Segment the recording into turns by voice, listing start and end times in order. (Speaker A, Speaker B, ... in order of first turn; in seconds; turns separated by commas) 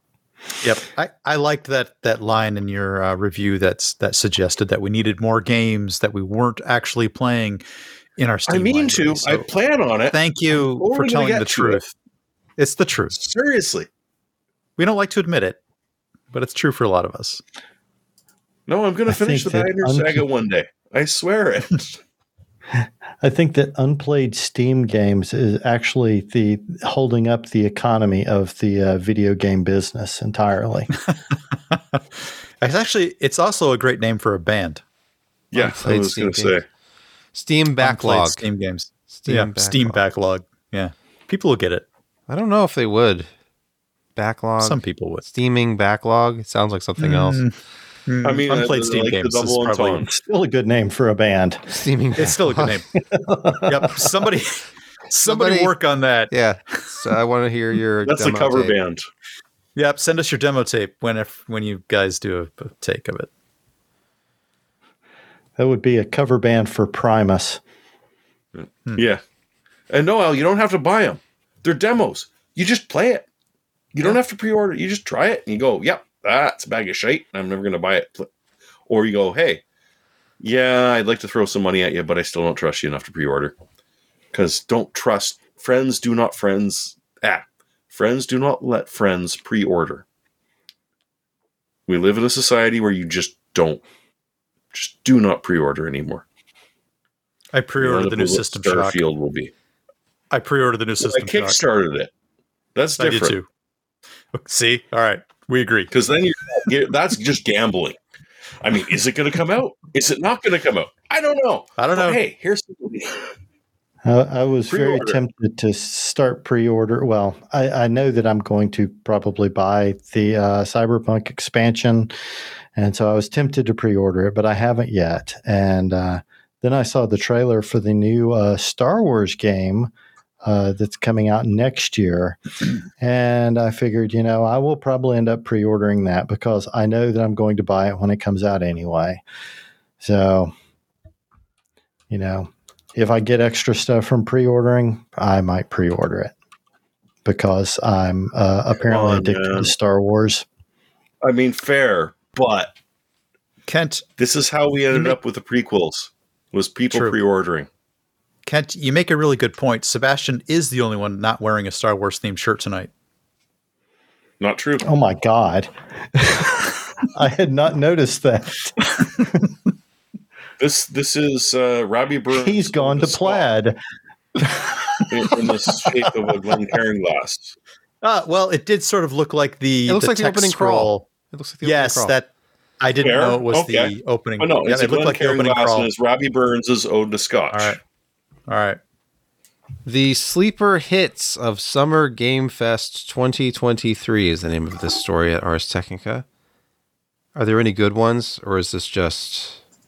Speaker A: 0.6-7.6, Speaker A: 8.2-9.5, Speaker B: 8.5-11.8, Speaker A: 10.1-11.9, Speaker A: 12.6-13.2, Speaker B: 13.1-13.9, Speaker A: 14.8-15.6, Speaker A: 16.3-17.4, Speaker B: 18.7-22.0, Speaker C: 19.1-20.2, Speaker C: 22.7-30.9, Speaker A: 31.7-34.8, Speaker B: 35.5-36.6, Speaker D: 35.5-36.6, Speaker D: 37.3-38.5, Speaker A: 37.8-41.9, Speaker D: 39.1-40.0, Speaker D: 42.3-43.3, Speaker D: 44.2-47.5, Speaker A: 44.6-45.2, Speaker A: 47.0-47.5, Speaker A: 48.1-50.1, Speaker B: 48.2-50.1, Speaker C: 50.1-51.6, Speaker D: 51.7-52.8, Speaker A: 52.2-52.9, Speaker C: 53.0-54.1, Speaker A: 53.7-56.9, Speaker D: 55.2-55.7, Speaker D: 56.3-58.8, Speaker B: 58.0-59.0, Speaker A: 59.8-63.3, Speaker C: 65.6-67.6, Speaker B: 68.6-69.2, Speaker B: 69.9-73.3, Speaker B: 73.9-78.3, Speaker B: 78.9-79.6, Speaker B: 80.4-83.5, Speaker B: 84.3-90.0, Speaker B: 91.9-93.8, Speaker B: 94.7-96.2, Speaker A: 97.5-99.0, Speaker B: 97.8-99.5, Speaker A: 100.3-101.6, Speaker B: 101.0-102.1, Speaker B: 102.8-103.4, Speaker A: 103.0-103.5, Speaker A: 104.3-105.9, Speaker B: 105.9-108.0, Speaker B: 108.6-113.3, Speaker A: 111.8-112.2, Speaker C: 114.0-122.1, Speaker B: 114.7-115.2, Speaker C: 122.8-129.9, Speaker C: 130.4-132.4, Speaker C: 133.0-139.2, Speaker C: 140.0-140.5, Speaker C: 142.1-146.3, Speaker C: 147.2-150.4, Speaker B: 148.8-149.7, Speaker B: 151.2-152.7, Speaker A: 153.7-154.1, Speaker B: 154.2-157.7, Speaker A: 154.9-155.2, Speaker A: 156.9-157.2, Speaker A: 158.4-162.9, Speaker B: 164.4-164.9, Speaker C: 164.8-169.5, Speaker B: 170.6-173.5, Speaker C: 172.3-173.8, Speaker C: 174.4-176.1, Speaker B: 175.1-177.6, Speaker A: 178.0-181.1, Speaker D: 179.9-182.2, Speaker A: 181.6-182.3, Speaker A: 182.8-185.9, Speaker B: 183.0-187.8, Speaker A: 187.5-187.8, Speaker A: 188.5-188.8, Speaker D: 189.8-196.2, Speaker D: 197.3-199.6